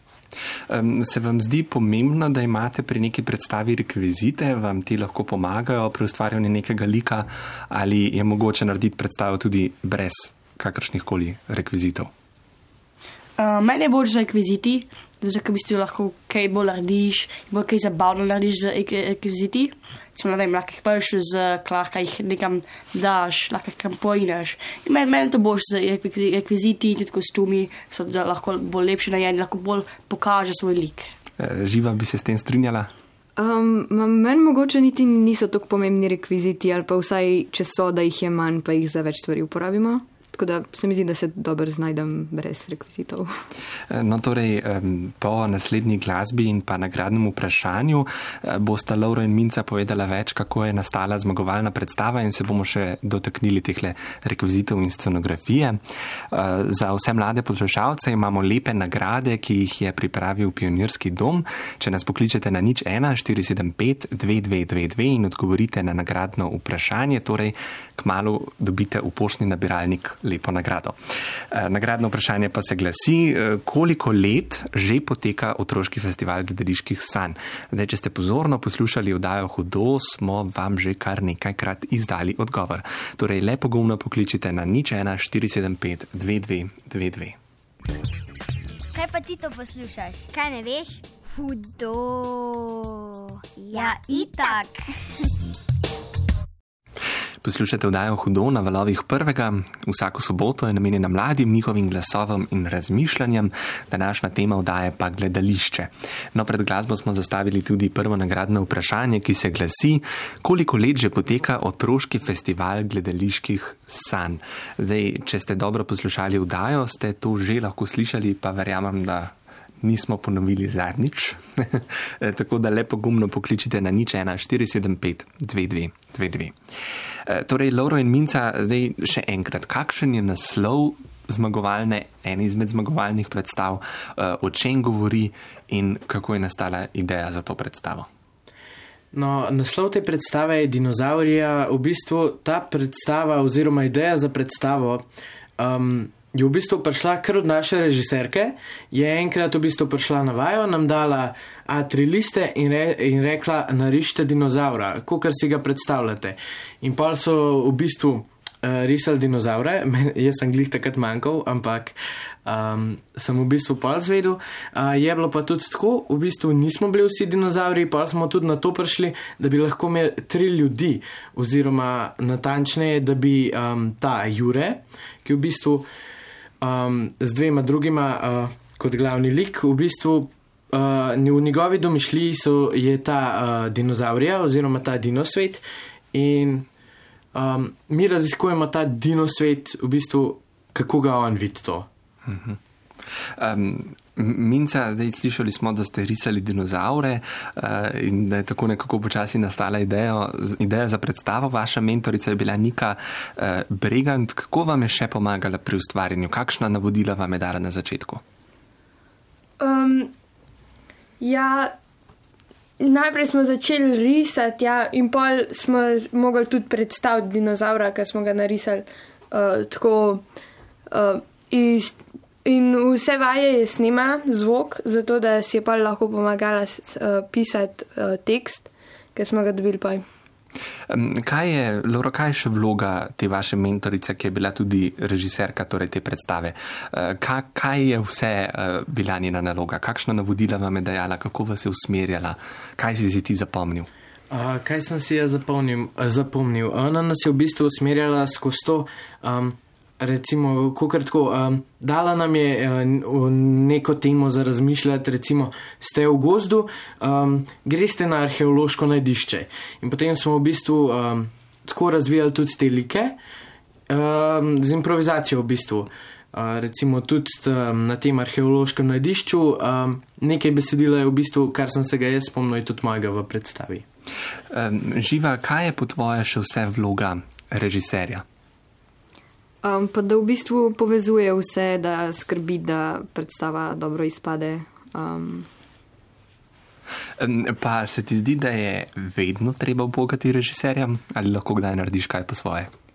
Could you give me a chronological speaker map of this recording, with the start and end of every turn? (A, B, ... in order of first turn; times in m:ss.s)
0:00.7-0:12.1 A
0:13.4-0:31.1 B
0:31.4-0:32.9 A
0:33.4-0:43.3 C
0:43.9-0:55.8 A
0:56.3-1:27.4 A
1:28.9-1:34.9 D
1:37.4-2:06.6 A
2:07.2-2:18.1 A
2:19.1-2:25.0 E
2:25.6-2:55.9 E
2:56.6-3:06.7 E
3:07.3-3:11.9 E
3:12.2-3:12.6 A
3:13.2-3:28.2 A
3:29.6-3:30.1 F
3:31.2-3:31.8 F
3:32.8-3:40.2 F
3:40.9-3:50.0 F
3:50.9-4:03.9 A
4:04.3-4:23.2 E
4:23.9-4:33.8 E
4:34.5-4:38.2 A
4:39.6-4:45.5 C
4:47.2-4:52.7 A